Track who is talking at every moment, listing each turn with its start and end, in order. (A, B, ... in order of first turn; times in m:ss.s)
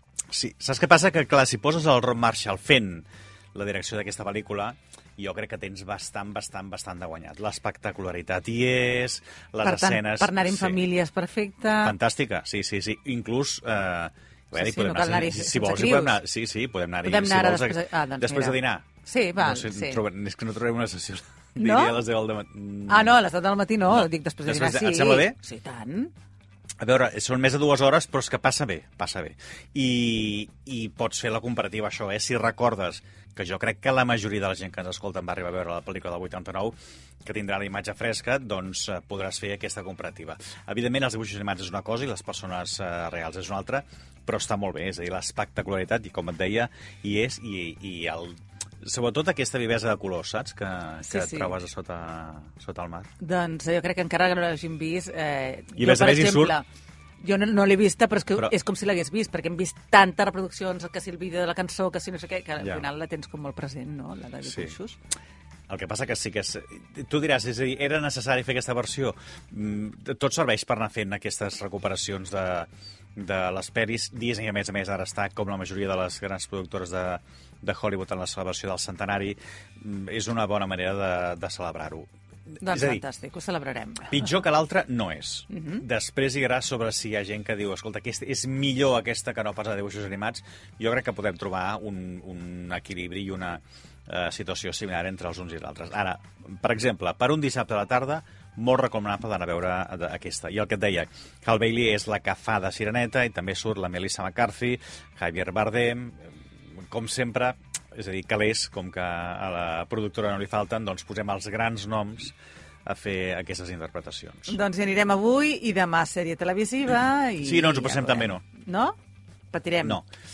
0:00.3-0:10.8 A
0:09.6-0:12.0 B
0:11.8-0:18.9 A
0:14.5-0:16.2 B
0:17.0-0:20.0 B
0:19.4-0:23.2 A
0:21.6-0:22.0 B
0:22.9-0:26.1 B
0:23.9-0:25.4 A
0:26.8-0:53.1 A
0:51.0-0:51.5 B
0:53.2-0:56.6 B
0:55.8-0:56.6 A
0:57.2-1:05.0 B
1:02.6-1:02.8 A
1:04.4-1:04.8 A
1:05.7-1:22.1 A
1:22.6-1:23.0 A
1:22.6-1:24.3 B
1:24.1-1:52.3 A
1:25.5-1:25.8 B
1:52.8-1:54.6 A
1:54.5-1:59.0 B
1:57.4-1:58.4 A
1:59.5-2:00.0 B
1:59.8-2:00.1 A